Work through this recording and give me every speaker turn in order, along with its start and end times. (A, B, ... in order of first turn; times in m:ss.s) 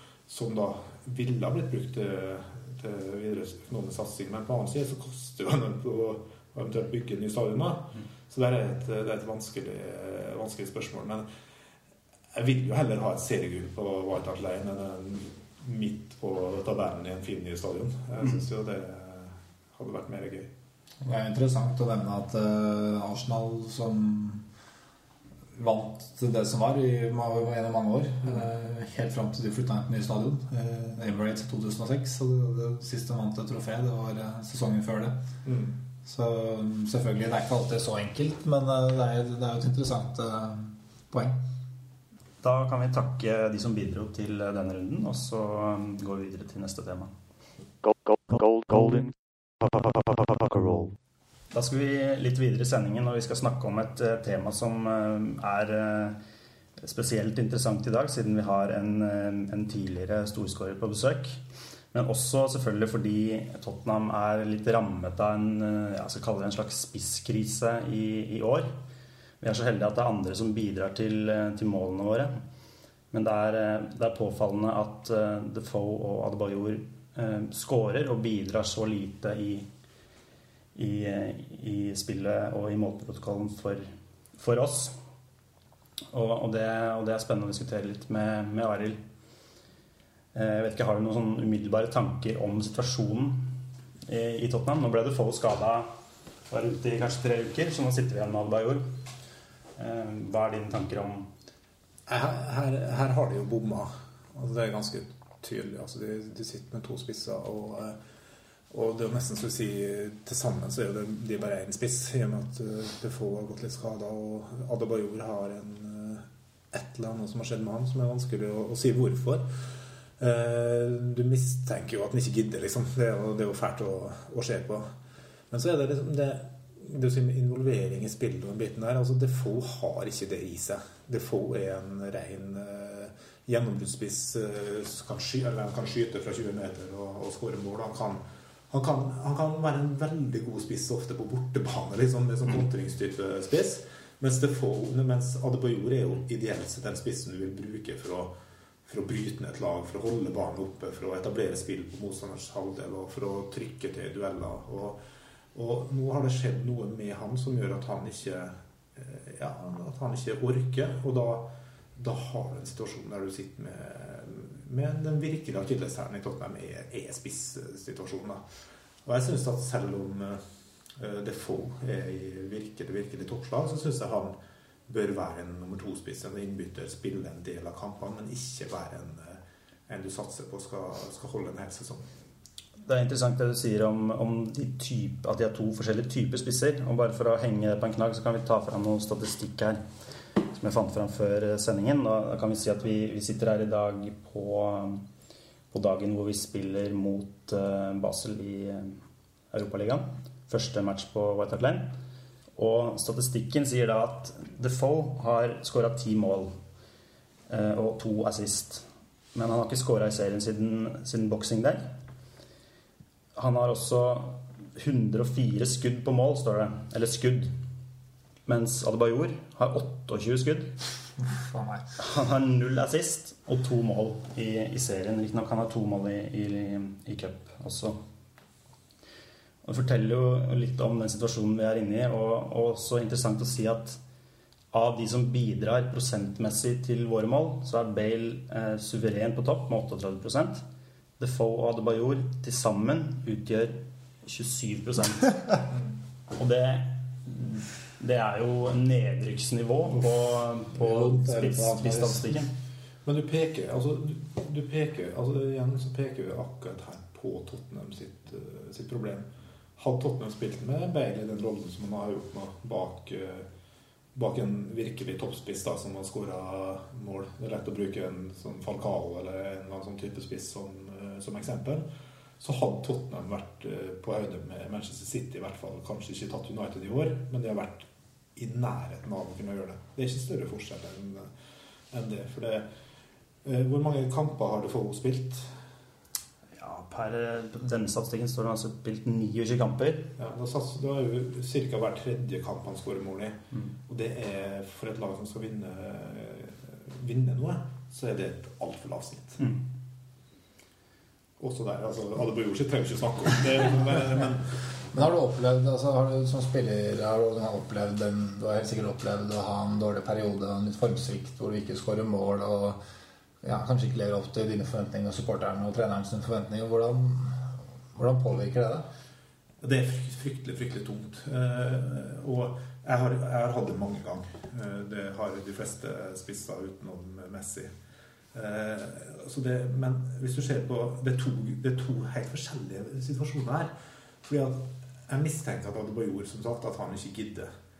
0:00.3-0:11.3 A
0:12.3-0:20.5 A
0:21.0-0:24.5 B
0:25.5-0:35.2 B
0:35.4-0:35.8 A
0:36.1-0:41.4 B
0:42.4-0:47.1 C
0:47.8-0:51.0 D
0:51.5-0:56.2 C
0:56.8-1:01.4 C
1:01.9-1:08.7 C
1:09.4-1:12.4 C
1:13.1-1:19.7 C
1:20.8-1:25.0 C
1:26.1-1:29.0 C
1:30.3-1:33.5 C
1:34.1-1:35.9 C
1:36.5-1:38.9 C
1:39.8-1:41.3 C
1:42.1-1:48.0 A
1:48.7-1:59.5 A
2:00.2-2:04.9 A
2:05.5-2:28.3 A
2:28.9-2:35.0 A
2:35.5-2:48.4 A
2:49.0-2:50.4 A
2:51.0-2:54.4 A
2:54.9-3:02.1 A
3:02.8-3:09.8 C
3:10.5-3:15.0 C
3:15.7-3:19.0 C
3:19.5-3:22.0 C
3:22.6-3:26.5 C
3:27.5-3:31.9 C
3:33.4-3:37.5 C
3:38.5-3:40.7 C
3:41.3-3:41.9 B
3:42.0-3:48.0 C
3:49.6-3:54.0 C
3:54.7-4:00.6 C
4:01.2-4:05.6 C
4:06.4-4:12.5 C
4:10.9-4:12.2 B
4:13.0-4:19.3 A
4:19.8-4:23.5 A
4:24.2-4:31.9 A
4:32.4-4:41.3 A
4:41.9-4:42.7 A
4:43.4-4:45.5 A
4:46.6-4:50.1 C
4:50.2-4:59.4 A
5:01.4-5:04.4 A
5:04.9-5:12.8 B
5:13.4-5:18.9 B
5:19.6-5:27.7 A
5:28.3-5:33.7 A
5:34.2-5:37.5 A